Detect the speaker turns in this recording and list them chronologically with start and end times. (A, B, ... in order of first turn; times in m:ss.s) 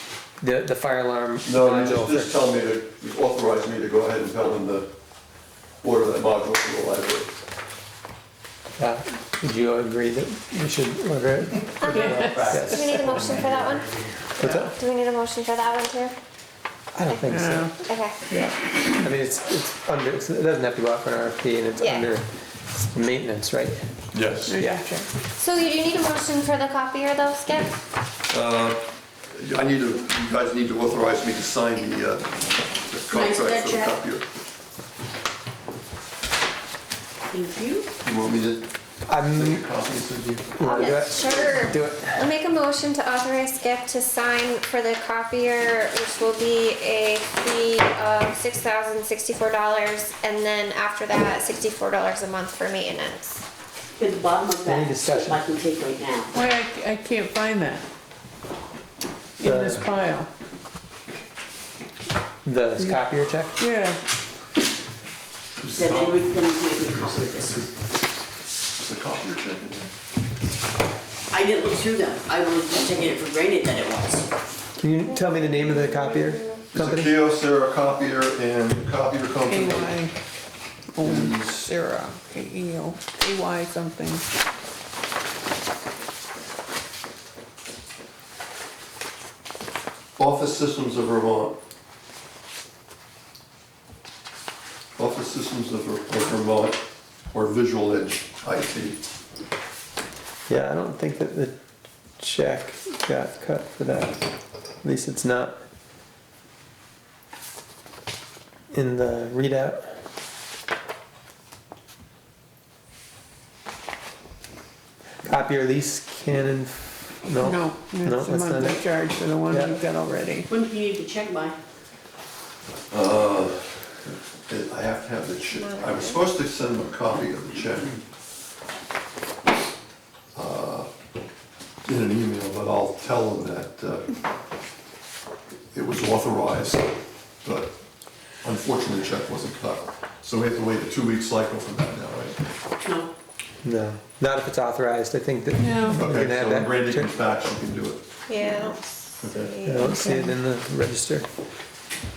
0:00.4-0:02.3 A
0:01.4-0:04.9 B
0:05.8-0:07.3 B
0:08.8-0:13.1 A
0:11.8-0:16.1 C
0:11.9-0:12.6 D
0:13.0-0:13.5 B
0:14.4-0:14.7 A
0:16.9-0:17.7 A
0:17.0-0:18.2 C
0:17.3-0:17.8 D
0:18.3-0:22.3 A
0:21.8-0:22.1 C
0:22.8-0:23.8 A
0:24.1-0:24.5 B
0:24.5-0:25.1 D
0:25.4-0:27.7 C
0:28.3-0:34.2 B
0:33.1-0:33.9 E
0:37.3-0:37.9 E
0:38.0-0:38.6 B
0:39.1-0:39.6 A
0:39.3-0:40.4 B
0:40.4-0:42.0 A
0:40.6-0:53.4 C
0:40.8-0:41.4 E
0:54.0-0:56.3 E
0:54.6-0:55.4 A
0:56.3-0:57.8 D
0:59.4-1:00.3 D
0:59.4-0:59.8 A
1:02.4-1:03.6 A
1:03.6-1:04.0 D
1:05.6-1:06.2 B
1:05.6-1:07.6 E
1:08.8-1:09.9 B
1:11.3-1:14.3 E
1:14.8-1:17.1 A
1:16.7-1:20.0 B
1:19.5-1:20.1 D
1:20.9-1:24.3 D
1:21.0-1:21.6 B
1:30.2-1:31.6 B
1:35.0-1:39.0 B
1:40.5-1:41.5 A
1:42.2-1:44.2 A
1:44.8-1:45.6 A
1:48.7-1:49.8 A
1:55.2-1:58.8 A
1:57.4-2:00.5 D
1:59.5-1:59.8 A
2:00.5-2:01.6 E
2:02.9-2:08.0 B
2:05.6-2:06.1 C
2:10.3-2:10.9 B
2:11.8-2:14.1 B
2:15.7-2:16.9 B
2:17.4-2:17.7 B
2:18.4-2:22.4 B
2:22.8-2:23.1 E
2:23.6-2:27.1 A
2:25.6-2:26.0 D
2:25.9-2:28.0 B
2:28.3-2:29.9 C
2:29.2-2:29.5 B
2:29.6-2:31.3 A
2:29.8-2:30.3 D